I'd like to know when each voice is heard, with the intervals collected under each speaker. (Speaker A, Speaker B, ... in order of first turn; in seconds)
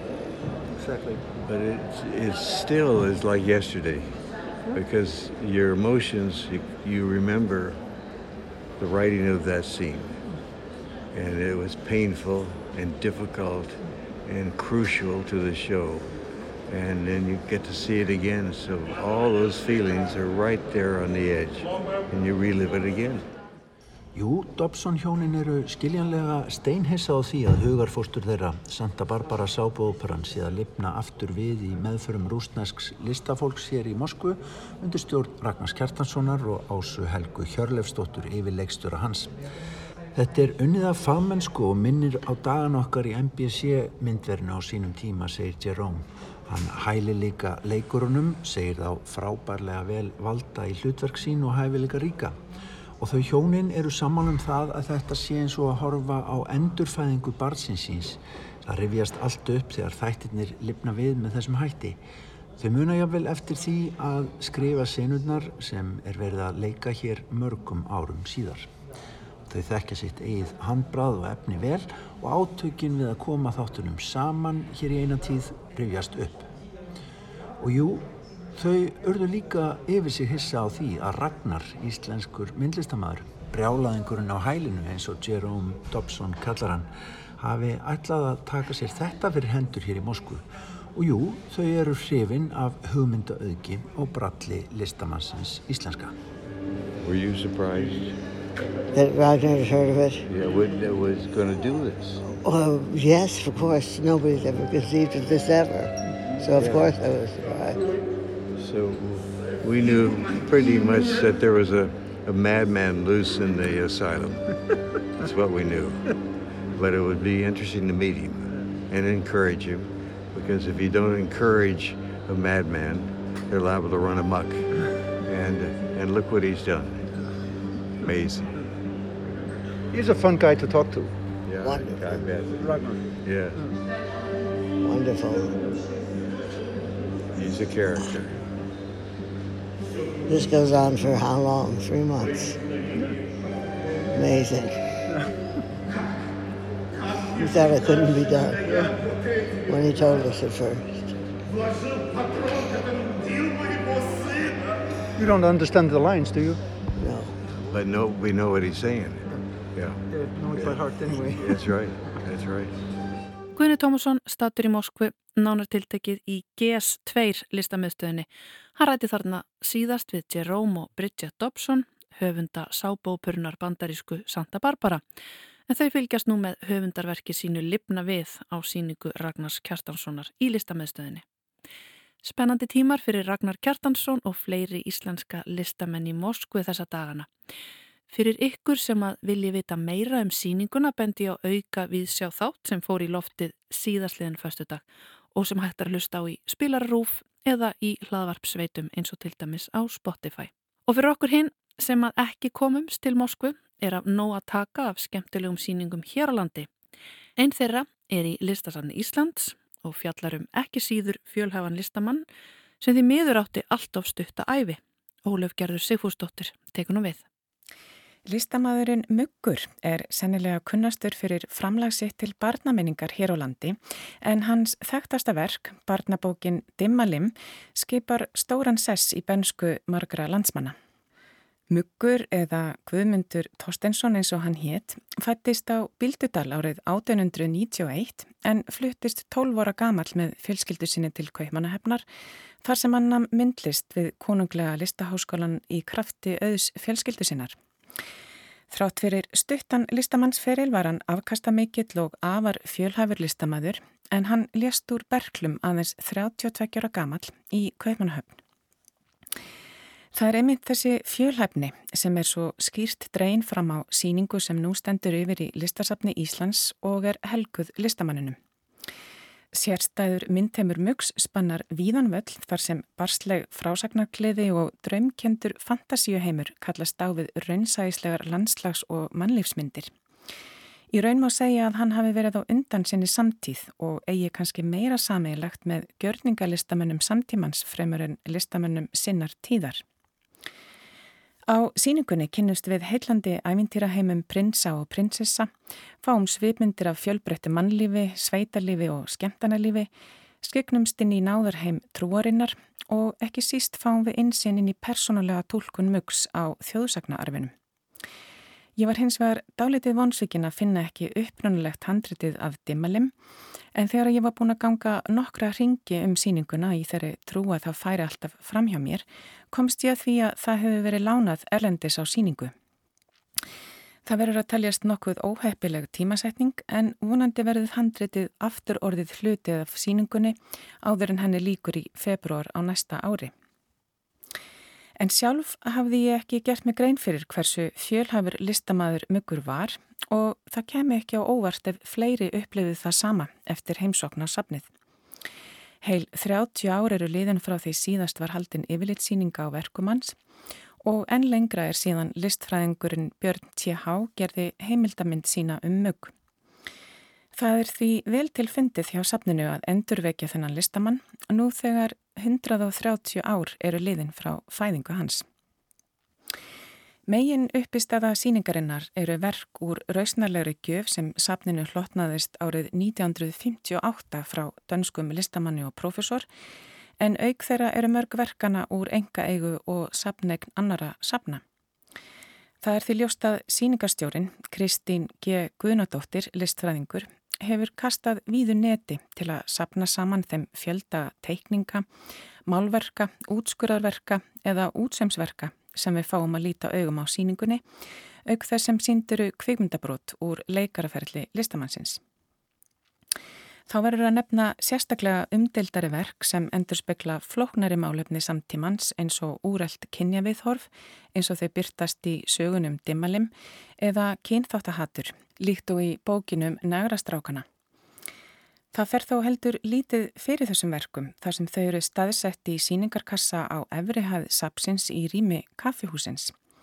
Speaker A: 0.8-1.2, 129.9-131.1, 132.5-133.1, 155.2-156.6, 160.1-161.6
Speaker B: 1.4-7.8, 8.8-10.3, 11.1-16.1, 16.7-23.2, 97.0-98.2, 100.3-102.2, 106.5-106.9, 108.6-114.5, 115.2-116.1, 116.7-127.2, 128.0-128.5, 131.4-133.6, 137.3-138.4, 157.7-162.8
Speaker C: 24.1-39.3, 40.1-52.4, 53.0-62.0, 62.6-68.7, 69.5-76.5, 77.6-96.2
Speaker D: 98.9-100.2, 102.2-107.8, 131.6-132.3, 134.8-135.6, 140.2-142.6, 144.1-144.9, 147.3-148.7, 149.7-151.2, 157.0-157.4
Speaker E: 163.6-175.0, 175.7-181.2, 182.2-187.3, 188.1-194.8, 195.3-206.7, 207.4-212.2, 212.8-217.2
Speaker F: 218.3-230.8, 231.7-242.1, 242.6-247.6, 248.7-258.4, 260.1-268.4, 269.5-279.9, 280.9-289.8, 291.5-295.5, 296.0-299.9, 300.4-307.5, 308.8-313.1, 313.8-322.5, 324.1-333.3, 335.0-344.7, 345.8-350.2, 350.8-356.1, 357.3-365.3, 367.1-376.3, 377.0-381.4, 382.6-391.9, 392.5-397.6, 398.3-402.0, 403.7-417.5, 418.7-426.3